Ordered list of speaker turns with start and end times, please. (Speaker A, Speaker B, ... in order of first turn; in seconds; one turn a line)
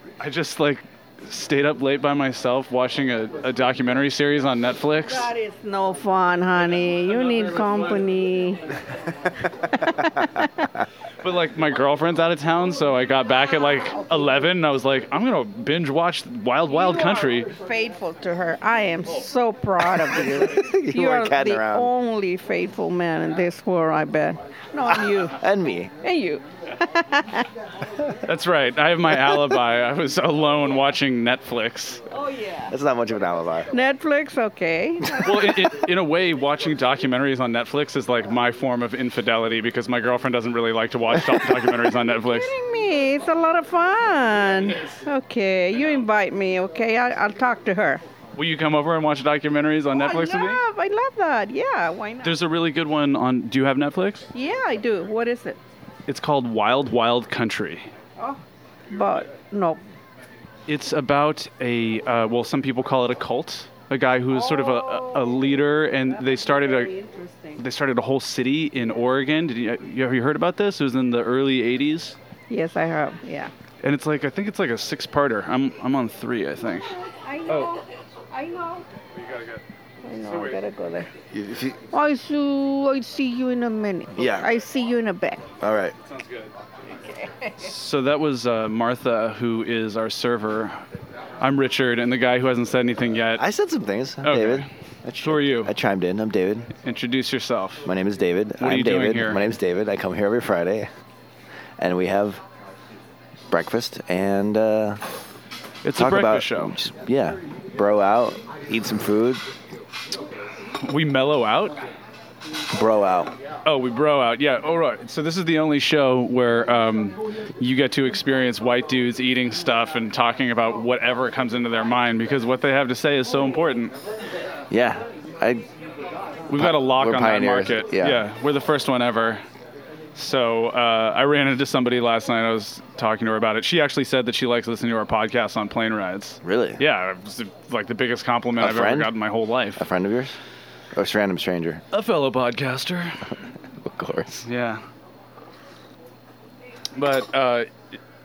Speaker A: 0.2-5.3
Speaker B: 5.0-8.7
Speaker B: 9.7-10.7
Speaker A: 11.2-17.5
Speaker B: 16.7-25.4
Speaker C: 20.2-21.9
Speaker C: 24.9-25.9
Speaker B: 26.0-27.5
Speaker A: 28.2-32.0
Speaker B: 32.1-32.7
Speaker C: 32.7-33.7
Speaker B: 33.7-35.6
Speaker A: 35.1-42.5
Speaker B: 41.7-48.0
Speaker A: 48.4-50.6
Speaker B: 49.9-52.3
Speaker A: 52.2-54.3
Speaker B: 54.3-55.6
Speaker A: 56.1-57.9
Speaker B: 58.2-59.8
Speaker A: 60.7-66.9
Speaker B: 64.3-65.6
Speaker B: 66.1-67.6
Speaker A: 67.6-72.2
Speaker B: 72.5-73.5
Speaker A: 73.8-77.0
Speaker B: 77.0-78.8
Speaker A: 79.3-79.6
Speaker B: 80.0-81.1
Speaker C: 81.3-81.8
Speaker B: 81.9-85.4
Speaker C: 84.1-84.5
Speaker C: 85.6-86.0
Speaker B: 87.1-87.5
Speaker A: 87.6-90.8
Speaker A: 91.4-93.4
Speaker C: 93.4-96.7
Speaker A: 94.2-94.7
Speaker A: 95.2-95.7
Speaker A: 96.8-97.9
Speaker C: 97.8-100.9
Speaker A: 98.6-99.4
Speaker C: 101.8-102.4
Speaker C: 103.5-105.0
Speaker A: 105.8-106.8
Speaker C: 106.0-109.5
Speaker A: 110.8-111.8
Speaker C: 112.7-113.3
Speaker A: 113.6-123.9
Speaker C: 124.7-125.7
Speaker A: 126.5-129.4
Speaker C: 126.5-128.2
Speaker A: 130.1-139.8
Speaker C: 136.4-136.8
Speaker C: 138.6-139.1
Speaker C: 139.8-140.4
Speaker C: 140.9-141.8
Speaker A: 141.9-143.3
Speaker C: 143.8-144.4
Speaker A: 144.4-144.8
Speaker A: 146.9-147.7